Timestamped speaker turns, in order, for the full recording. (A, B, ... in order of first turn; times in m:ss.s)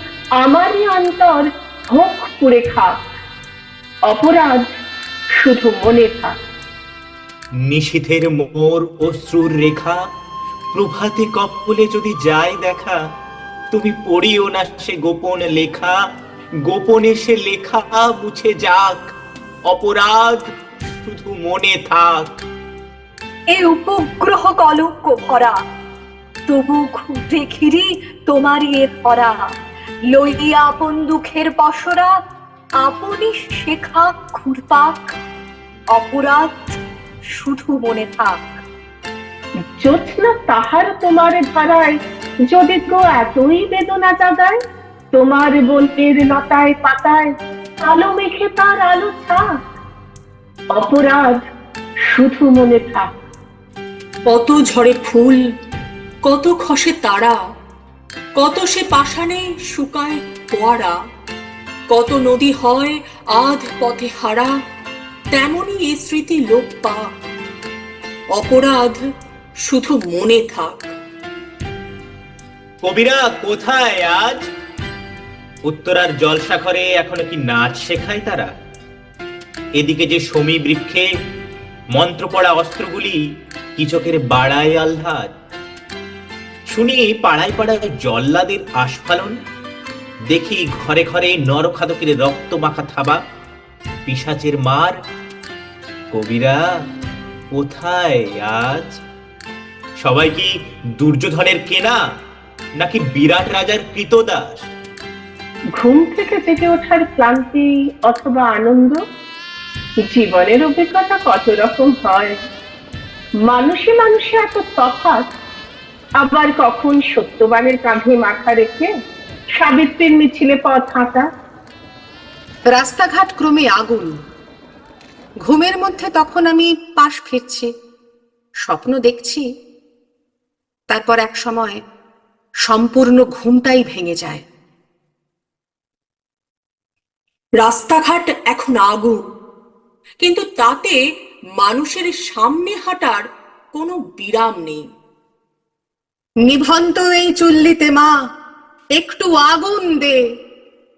0:00.4-0:02.9 A
0:04.1-0:04.6 A
0:05.4-0:06.3 A
0:07.6-0:10.0 B
0:10.7-0:13.0 B
0:13.7-0:15.9 B
0:16.6-0:19.1 B
0:19.7-0:20.4 B
0:21.0-0:22.3 B
0:23.5-0:25.6 C
0:26.5-0:29.5 C
0:30.1-0:32.1 C
0:32.8-0:35.1 C
0:35.9-0:36.8 C
0:37.3-0:38.6 C
0:39.8-0:42.0 A
0:42.5-0:44.6 A
0:45.1-0:49.4 A
0:50.8-0:51.4 A
0:52.1-0:53.1 A
0:54.2-0:55.4 D
0:56.2-0:57.4 D
0:58.4-1:00.9 D
1:01.9-1:04.5 D
1:05.3-1:07.1 D
1:08.3-1:09.0 D
1:09.6-1:10.9 D
1:12.8-1:14.4 B
1:15.7-1:18.5 B
1:19.8-1:21.0 B
1:21.9-1:23.2 B
1:23.8-1:25.3 B
1:26.7-1:29.3 B
1:30.3-1:33.2 B
1:34.1-1:34.9 B
1:36.1-1:36.6 B
1:37.5-1:39.0 B
1:40.0-1:42.0 B
1:42.8-1:44.7 B
1:45.8-1:49.0 A
1:50.0-1:52.4 A
1:53.4-1:55.2 A
1:56.2-1:58.9 A
1:59.6-2:01.2 A
2:02.7-2:04.1 E
2:05.4-2:07.7 E
2:08.7-2:09.4 E
2:10.9-2:11.8 E
2:12.7-2:14.4 E
2:17.6-2:19.2 D
2:20.2-2:21.0 D
2:21.6-2:23.2 D
2:23.8-2:24.8 D
2:26.4-2:28.1 E
2:28.9-2:30.2 E